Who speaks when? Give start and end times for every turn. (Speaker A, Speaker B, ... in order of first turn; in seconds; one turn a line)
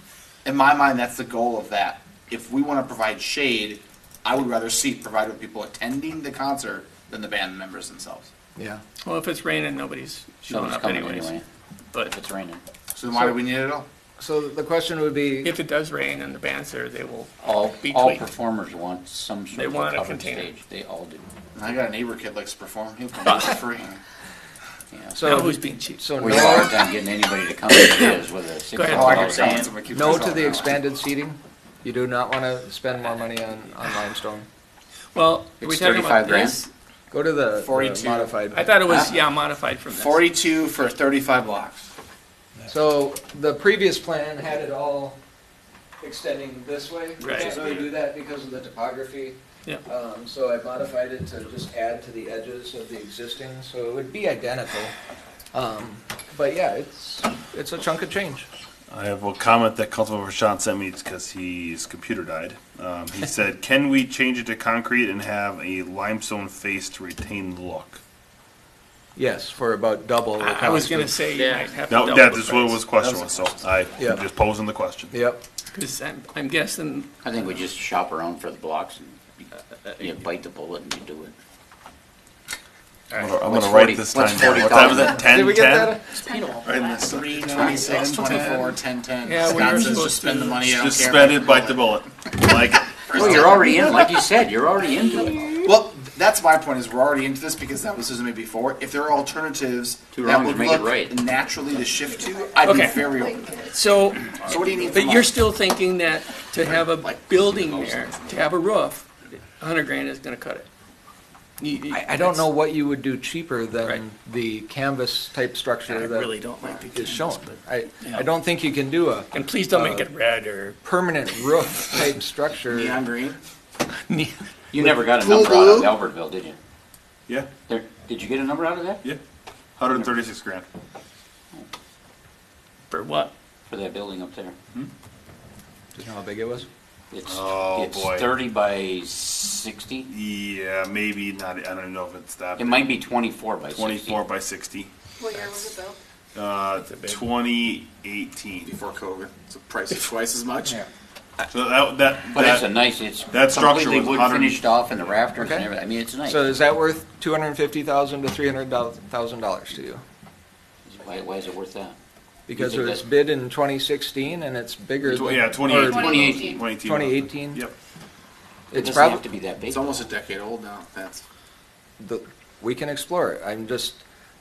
Speaker A: 0.4-8.3
Speaker B: 8.6-8.8
Speaker C: 9.0-11.4
Speaker D: 10.5-11.4
Speaker D: 12.0-12.6
Speaker A: 12.9-13.9
Speaker B: 13.1-13.5
Speaker B: 14.2-15.5
Speaker C: 15.4-18.2
Speaker D: 17.4-21.2
Speaker C: 19.5-20.5
Speaker A: 21.6-23.9
Speaker C: 23.3-23.6
Speaker D: 24.9-25.3
Speaker B: 25.1-26.9
Speaker C: 25.2-26.4
Speaker D: 26.2-30.8
Speaker C: 28.7-29.5
Speaker A: 28.9-30.6
Speaker B: 29.9-34.5
Speaker C: 35.1-36.7
Speaker D: 35.6-36.6
Speaker B: 37.1-38.8
Speaker A: 37.6-39.1
Speaker C: 38.5-40.3
Speaker A: 39.9-41.9
Speaker B: 42.7-45.2
Speaker B: 46.0-54.9
Speaker C: 47.2-47.6
Speaker B: 55.5-58.5
Speaker E: 58.9-68.0
Speaker B: 69.2-71.1
Speaker C: 70.4-72.8
Speaker E: 71.9-75.2
Speaker B: 75.1-75.4
Speaker C: 75.7-77.1
Speaker D: 77.2-79.4
Speaker D: 80.0-81.3
Speaker E: 83.1-86.0
Speaker D: 83.5-85.3
Speaker B: 85.2-86.2
Speaker F: 86.1-88.2
Speaker E: 86.7-88.3
Speaker A: 87.0-92.0
Speaker C: 87.3-90.7
Speaker E: 90.6-93.6
Speaker D: 93.1-95.6
Speaker A: 93.2-93.8
Speaker A: 95.6-103.5
Speaker D: 100.1-101.2
Speaker F: 102.0-103.8
Speaker C: 102.6-110.7
Speaker A: 104.4-105.3
Speaker A: 106.6-108.3
Speaker C: 111.6-112.5
Speaker B: 111.9-116.3
Speaker C: 115.9-118.3
Speaker B: 116.9-120.1
Speaker C: 119.3-120.8
Speaker B: 120.8-123.0
Speaker A: 122.7-123.4
Speaker C: 124.1-124.4
Speaker D: 124.7-126.6
Speaker A: 125.1-125.9
Speaker D: 127.7-129.0
Speaker E: 129.8-130.7
Speaker C: 132.9-133.3
Speaker D: 133.7-134.6
Speaker B: 135.9-136.7
Speaker D: 137.1-140.1
Speaker E: 137.3-138.3
Speaker E: 140.1-142.9
Speaker D: 142.6-144.2
Speaker E: 143.7-144.9
Speaker F: 145.2-146.0
Speaker E: 146.3-148.7
Speaker C: 146.8-147.2
Speaker A: 148.7-150.8
Speaker E: 151.5-152.7
Speaker D: 152.3-156.6
Speaker E: 153.3-154.6
Speaker B: 155.4-155.7
Speaker B: 156.2-160.0
Speaker D: 160.9-162.0
Speaker B: 162.5-167.6
Speaker D: 162.5-163.1
Speaker E: 165.0-167.7
Speaker D: 165.9-166.7
Speaker B: 168.7-169.2
Speaker D: 168.8-170.0
Speaker A: 169.7-171.2
Speaker B: 172.0-174.0